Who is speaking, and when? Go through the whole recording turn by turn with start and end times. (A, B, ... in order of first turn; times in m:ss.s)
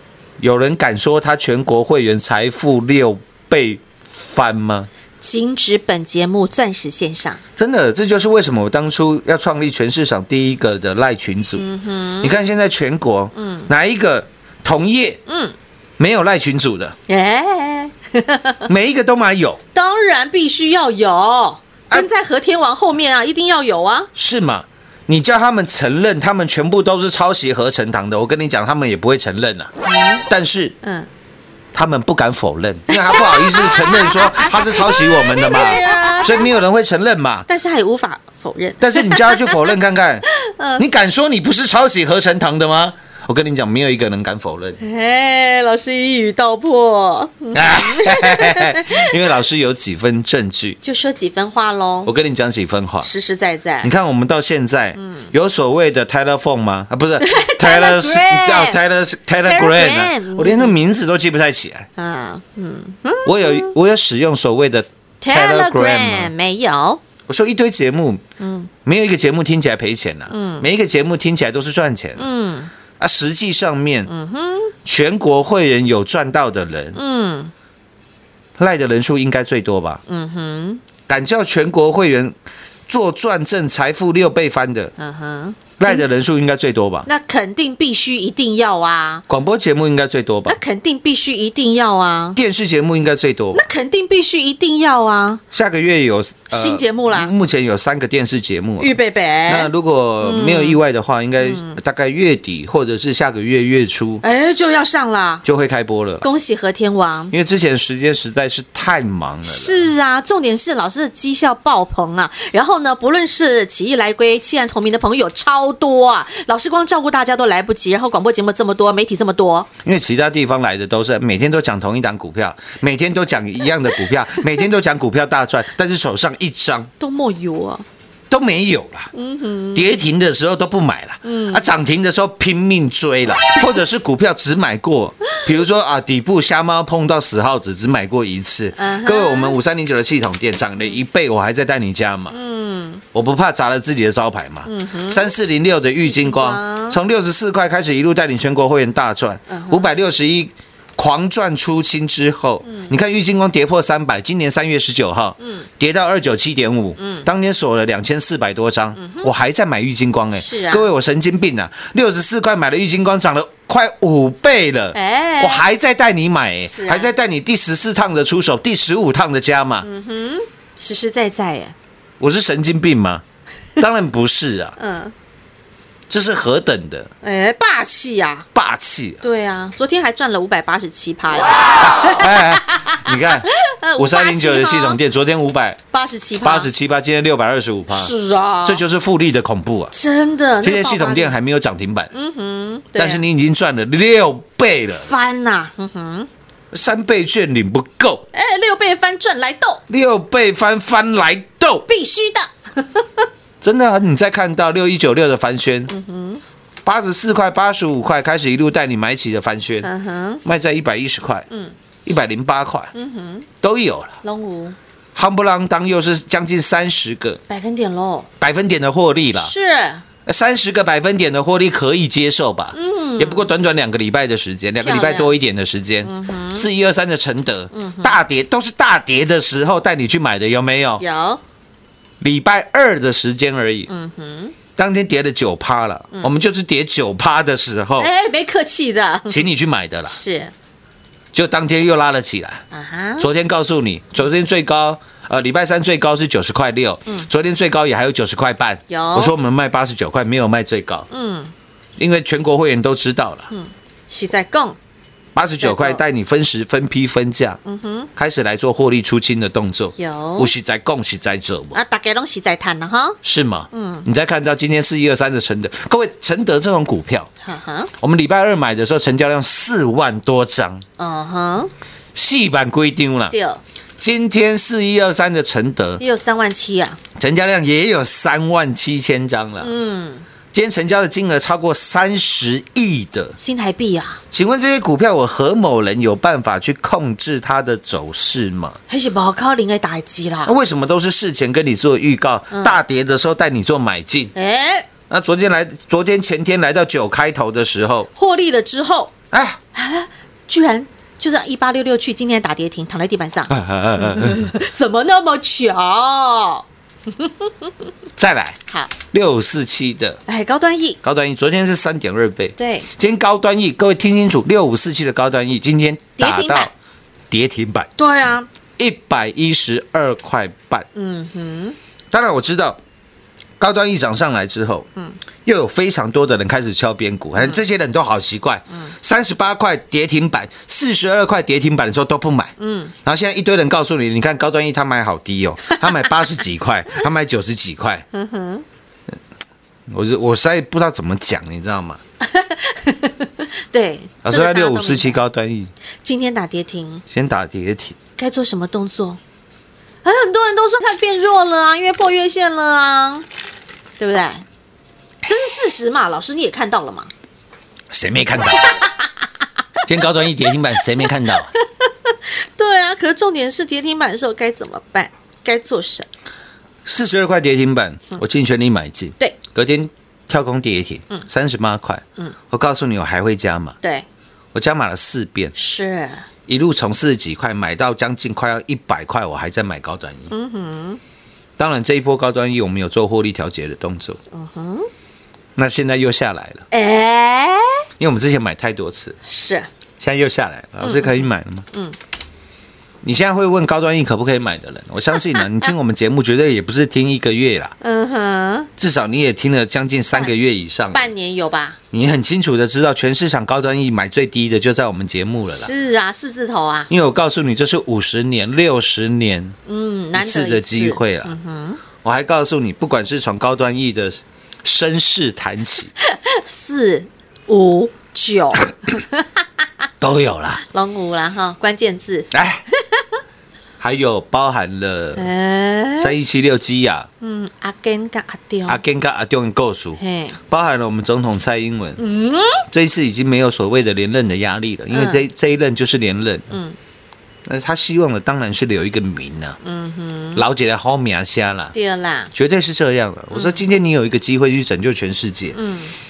0:00.4-0:04.9 A
0:05.2-0:07.4 B
0:07.6-0:11.6 A
0:11.6-0:12.4 B
0:12.2-0:15.2 A
0:13.3-0:13.7 B
0:15.3-0:15.5 B
0:16.0-0:17.0 A
0:17.1-0:18.6 B
0:18.7-0:19.6 A
0:19.7-0:24.1 B
0:24.1-0:29.7 A
0:29.8-0:30.2 B
0:30.3-0:30.7 A
0:30.8-0:31.1 B
0:31.7-0:37.5 A
0:32.9-0:36.6 B
0:37.5-0:39.7 B
0:38.8-0:40.2 A
0:40.4-0:40.9 B
0:40.8-0:44.8 A
0:44.8-0:49.1 B
0:47.5-0:50.8 A
0:50.8-0:52.1 B
0:52.0-0:53.1 A
0:53.0-0:53.9 B
0:53.8-1:01.9 A
0:55.0-0:55.3 B
0:57.2-0:58.8 B
0:59.4-1:00.8 B
1:02.0-1:03.7 B
1:03.2-1:06.3 A
1:05.2-1:07.0 B
1:07.3-1:08.2 A
1:08.4-1:08.7 B
1:08.8-1:12.3 A
1:10.3-1:10.6 B
1:12.2-1:12.7 B
1:13.0-1:14.1 A
1:14.1-1:14.7 B
1:14.8-1:17.0 A
1:16.9-1:17.5 B
1:18.6-1:20.0 A
1:20.1-1:20.8 B
1:21.1-1:22.3 A
1:22.9-1:24.9 A
1:25.0-1:26.0 B
1:25.8-1:27.1 A
1:27.0-1:29.2 B
1:29.3-1:30.6 A
1:30.5-1:32.4 B
1:32.4-1:33.6 A
1:33.5-1:35.4 B
1:35.5-1:44.2 A
1:36.5-1:37.3 B
1:38.8-1:40.8 B
1:41.4-1:41.8 B
1:44.2-1:45.4 B
1:45.4-1:46.3 A
1:46.2-1:47.3 B
1:47.3-1:49.9 A
1:49.4-1:59.7 B
1:59.8-2:06.9 A
2:07.0-2:07.8 B
2:08.3-2:09.1 A
2:09.1-2:09.9 B
2:09.7-2:22.4 A
2:11.2-2:11.6 B
2:18.8-2:19.6 B
2:22.3-2:23.0 B
2:23.1-2:49.9 A
2:24.6-2:25.3 B
2:26.0-2:27.0 B
2:29.5-2:29.9 B
2:32.6-2:32.9 B
2:35.4-2:35.7 B
2:37.0-2:37.3 B
2:39.0-2:39.3 B
2:40.3-2:40.9 B
2:44.9-2:45.6 B
2:46.6-2:47.1 B
2:49.8-2:51.7 B
2:52.2-2:53.2 A
2:53.8-2:54.8 A
2:54.8-2:55.1 B
2:56.1-2:57.1 A
2:57.2-2:58.4 B
2:58.5-2:59.2 A
2:59.2-3:05.0 B
3:01.8-3:05.8 A
3:05.9-3:06.7 B
3:06.4-3:08.1 A
3:07.9-3:08.8 B
3:08.6-3:09.9 A
3:09.9-3:11.3 B
3:10.6-3:12.1 A
3:12.1-3:13.2 B
3:12.9-3:15.1 A
3:14.9-3:16.3 B
3:16.7-3:18.2 A
3:18.3-3:19.8 B
3:19.9-3:21.8 A
3:21.9-3:23.2 B
3:23.6-3:25.9 A
3:25.9-3:26.4 B
3:26.8-3:29.9 A
3:29.8-3:30.4 B
3:30.4-3:31.5 A
3:32.0-3:32.9 A
3:32.9-3:33.5 B
3:33.6-3:34.2 A
3:34.2-3:34.8 B
3:35.1-3:37.4 A
3:37.5-3:38.3 B
3:38.4-3:39.5 A
3:39.4-3:40.0 B
3:40.2-3:51.0 A
3:42.7-3:43.5 B
3:44.8-3:45.3 B
3:46.0-3:46.7 B
3:47.7-3:48.2 B
3:51.0-3:51.4 B
3:52.2-3:53.9 A
3:53.9-3:54.5 B
3:54.8-3:58.1 A
3:58.0-3:59.4 B
3:59.3-4:00.2 A
4:00.1-4:00.5 B
4:01.3-4:02.6 A
4:02.7-4:03.3 B
4:03.2-4:11.1 A
4:08.9-4:09.3 B
4:11.1-4:11.5 B
4:12.0-4:13.5 A
4:13.5-4:14.8 B
4:15.3-4:17.6 A
4:15.6-4:16.0 B
4:17.6-4:18.1 B
4:18.1-4:21.8 A
4:20.0-4:20.5 B
4:21.7-4:23.2 B
4:23.2-4:27.3 A
4:23.7-4:24.0 B
4:27.4-4:27.9 B
4:28.0-4:30.8 A
4:31.0-4:31.7 B
4:32.1-4:33.3 A
4:33.3-4:33.6 B
4:34.0-4:36.0 A
4:36.0-4:37.0 B
4:37.2-4:39.7 A
4:39.6-4:40.2 B
4:40.5-4:43.3 A
4:43.4-4:44.2 B
4:44.3-4:48.8 A
4:48.9-4:50.6 B
4:50.4-4:54.3 A
4:52.5-4:52.8 B
4:54.3-4:54.9 B
4:55.1-4:58.1 A
4:58.1-4:59.1 B
4:59.3-4:59.6 A
4:59.7-5:06.6 B
5:03.5-5:04.5 A
5:08.2-5:08.6 A
5:09.1-5:10.2 A
5:10.3-5:11.0 B
5:11.0-5:16.7 A
5:12.6-5:12.9 B
5:16.2-5:16.7 B
5:17.3-5:17.9 A
5:18.0-5:18.5 B
5:18.8-5:20.8 A
5:20.9-5:21.8 B
5:22.1-5:22.8 A
5:23.6-5:24.9 A
5:25.4-5:38.0 A
5:32.6-5:32.9 B
5:38.1-5:38.6 B
5:39.9-5:42.0 A
5:42.2-5:45.2 B
5:44.2-5:45.7 A
5:46.0-5:47.0 B
5:47.1-5:48.0 A
5:48.2-5:49.2 B
5:50.0-5:53.2 B
5:54.0-5:54.4 B
5:55.2-5:57.1 B
5:57.9-5:58.7 A
5:59.8-6:01.5 A
6:01.3-6:06.1 B
6:06.8-6:13.8 A
6:14.5-6:15.5 A
6:15.5-6:16.2 B
6:16.5-6:20.3 A
6:20.3-6:21.0 B
6:21.6-6:24.2 A
6:24.3-6:24.9 B
6:25.6-6:26.6 A
6:26.7-6:27.8 B
6:28.0-6:29.2 A
6:29.2-6:29.7 B
6:30.0-6:31.6 A
6:30.8-6:32.0 B
6:33.0-6:37.7 A
6:37.8-6:38.7 B
6:38.8-6:41.1 A
6:40.9-6:41.8 B
6:41.9-6:45.7 A
6:45.5-6:46.9 B
6:46.9-6:49.6 A
6:49.6-6:51.8 B
6:50.1-6:51.3 A
6:52.0-6:55.9 A
6:56.0-6:59.2 B
7:00.0-7:00.6 A
7:00.7-7:02.3 B
7:02.3-7:02.6 A
7:03.8-7:05.3 A
7:05.2-7:06.1 B
7:06.0-7:07.1 A
7:07.2-7:08.8 B
7:08.7-7:12.0 A
7:10.0-7:10.4 B
7:12.0-7:12.6 B
7:12.7-7:16.5 A
7:14.9-7:15.2 B
7:16.5-7:16.8 B
7:17.4-7:19.6 A
7:19.6-7:20.4 B
7:20.3-7:21.7 A
7:21.7-7:22.3 B
7:22.3-7:25.6 A
7:23.3-7:23.6 B
7:25.5-7:25.9 B